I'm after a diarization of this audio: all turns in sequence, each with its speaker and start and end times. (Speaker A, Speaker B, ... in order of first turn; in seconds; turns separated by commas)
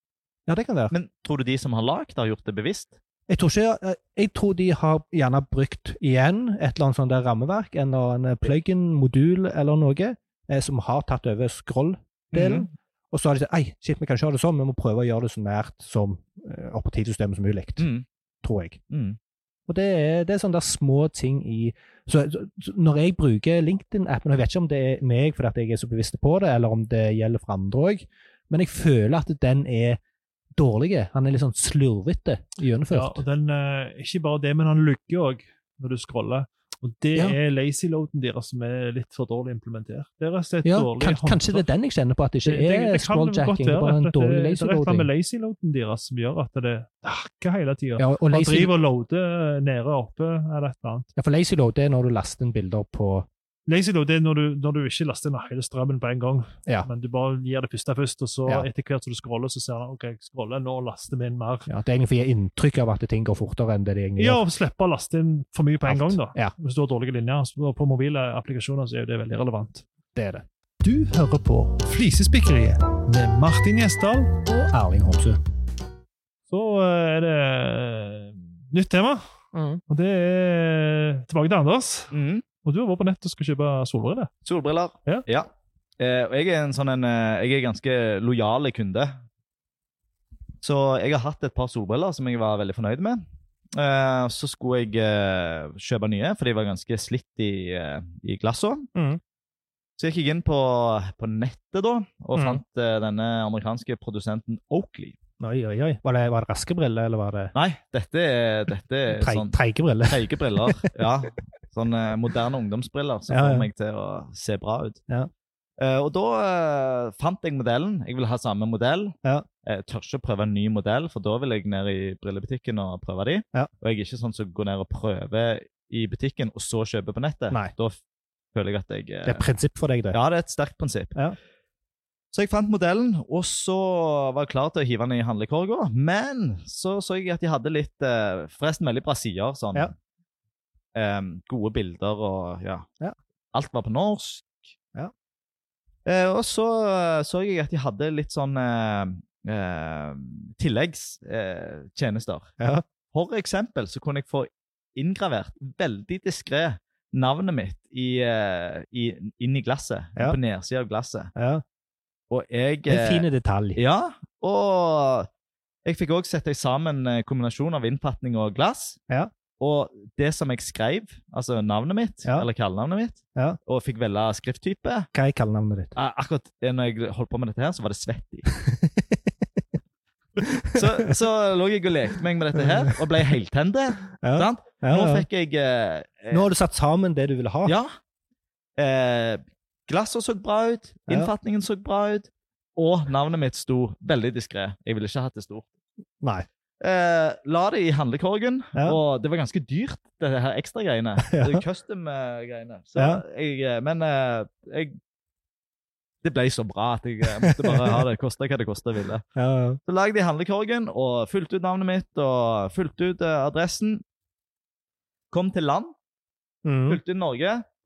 Speaker A: 0.5-0.9, Speaker B: 0.9-2.9, Speaker A: 3.3-17.9, Speaker B: 12.3-12.7, Speaker B: 17.8-18.0, Speaker A: 18.4-18.8, Speaker B: 18.9-19.2, Speaker A: 19.7-30.0, Speaker A: 30.6-33.2, Speaker C: 32.9-41.6, Speaker A: 40.6-45.1, Speaker C: 42.4-51.1, Speaker A: 48.0-48.7, Speaker A: 51.1-53.3, Speaker C: 53.7-61.7, Speaker A: 61.7-64.4, Speaker C: 64.2-69.8, Speaker A: 65.9-66.5, Speaker A: 70.1-70.4, Speaker C: 70.8-74.3, Speaker A: 74.5-75.4, Speaker C: 76.5-79.2, Speaker A: 79.5-79.8, Speaker C: 79.9-84.3, Speaker B: 82.1-82.4, Speaker B: 84.4-89.1, Speaker B: 90.6-93.2, Speaker B: 93.7-98.9, Speaker A: 98.9-99.2, Speaker B: 100.0-105.2, Speaker A: 102.3-102.6, Speaker A: 105.4-107.5, Speaker B: 107.5-109.5, Speaker A: 109.1-110.9, Speaker B: 110.1-115.0, Speaker A: 113.3-113.7, Speaker B: 115.8-128.0, Speaker B: 128.5-129.4, Speaker A: 129.2-130.2, Speaker B: 130.1-131.2, Speaker B: 132.3-139.9, Speaker B: 140.9-142.8, Speaker B: 143.5-144.6, Speaker B: 146.1-152.5, Speaker A: 152.6-152.8, Speaker B: 153.1-161.3, Speaker A: 161.3-161.6, Speaker B: 162.3-165.3, Speaker A: 162.9-163.8, Speaker B: 165.8-169.0, Speaker B: 169.6-175.1, Speaker A: 175.1-175.9, Speaker B: 175.9-178.5, Speaker A: 178.6-179.3, Speaker A: 180.4-181.1, Speaker B: 180.7-186.4, Speaker A: 182.6-183.0, Speaker A: 184.2-185.2, Speaker A: 186.3-187.7, Speaker B: 187.6-187.9, Speaker B: 188.8-195.7, Speaker A: 196.2-196.4, Speaker B: 196.8-205.0, Speaker A: 201.3-201.6, Speaker A: 203.0-203.2, Speaker B: 206.2-209.2, Speaker A: 207.4-208.0, Speaker A: 209.3-209.8, Speaker B: 209.8-214.0, Speaker B: 215.3-215.9, Speaker A: 216.6-217.0, Speaker B: 216.9-217.6